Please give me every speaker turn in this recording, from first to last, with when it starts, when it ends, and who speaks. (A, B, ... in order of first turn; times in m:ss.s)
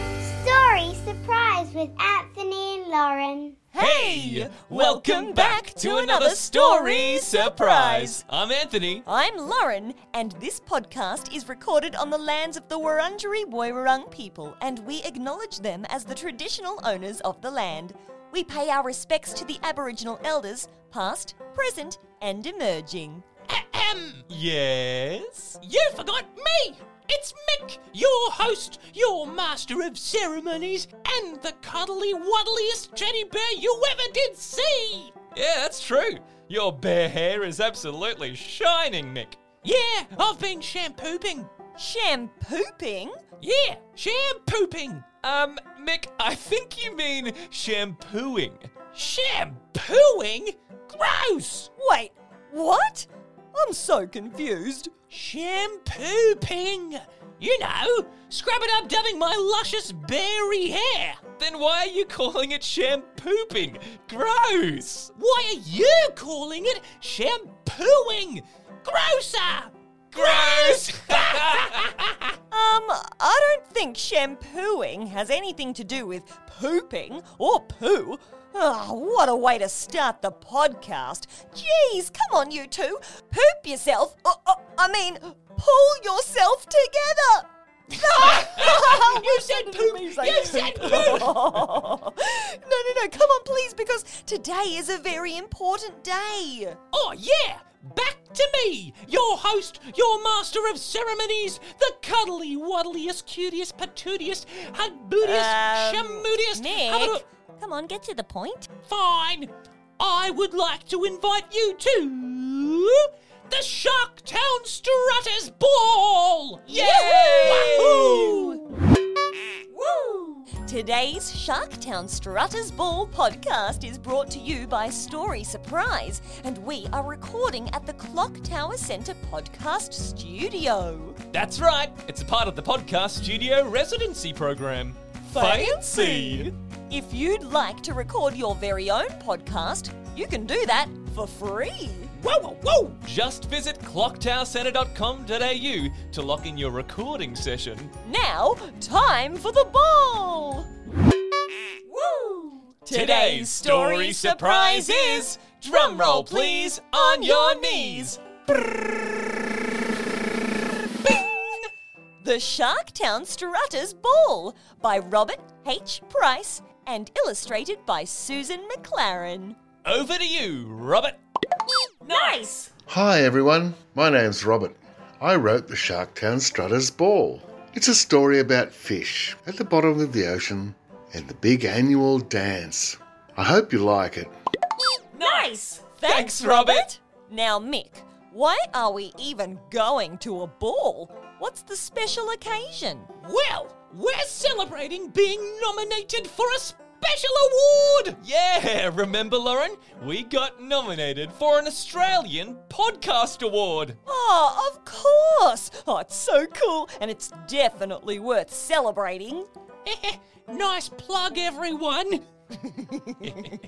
0:00.3-0:03.6 A
0:03.7-0:08.2 B
0:03.8-0:09.0 C
0:09.0-0:23.2 B
0:23.5-0:24.3 D
0:24.3-0:25.6 C
0:25.6-0:35.1 D
0:35.3-0:39.4 C
0:39.6-0:41.5 D
0:41.8-0:43.2 B
0:43.4-0:45.1 D
0:45.2-0:48.8 C
0:48.9-0:51.7 D
0:51.8-0:54.9 B
0:55.1-1:01.2 D
1:01.3-1:05.1 C
1:05.1-1:11.8 D
1:10.1-1:11.9 C
1:12.5-1:36.8 B
1:28.0-1:31.6 D
1:36.9-1:47.2 D
1:45.2-1:48.7 B
1:48.9-1:58.6 D
1:56.7-1:58.6 B
1:57.0-1:58.4 C
1:59.8-2:00.4 D
2:00.6-2:11.2 B
2:11.3-2:16.5 C
2:15.3-2:22.1 B
2:22.2-2:23.0 D
2:23.0-2:27.9 C
2:28.0-2:30.7 B
2:31.9-2:32.7 D
2:32.8-2:38.2 B
2:32.9-2:38.8 C
2:41.0-2:41.3 C
2:42.2-2:49.6 B
2:49.8-2:51.2 C
2:52.0-2:52.7 B
2:52.1-2:52.4 D
2:52.9-3:04.3 E
3:05.1-3:13.1 B
3:06.0-3:06.8 C
3:13.2-3:18.2 D
3:18.2-3:24.0 C
3:24.0-3:29.5 B
3:29.8-3:32.3 D
3:32.6-3:33.5 B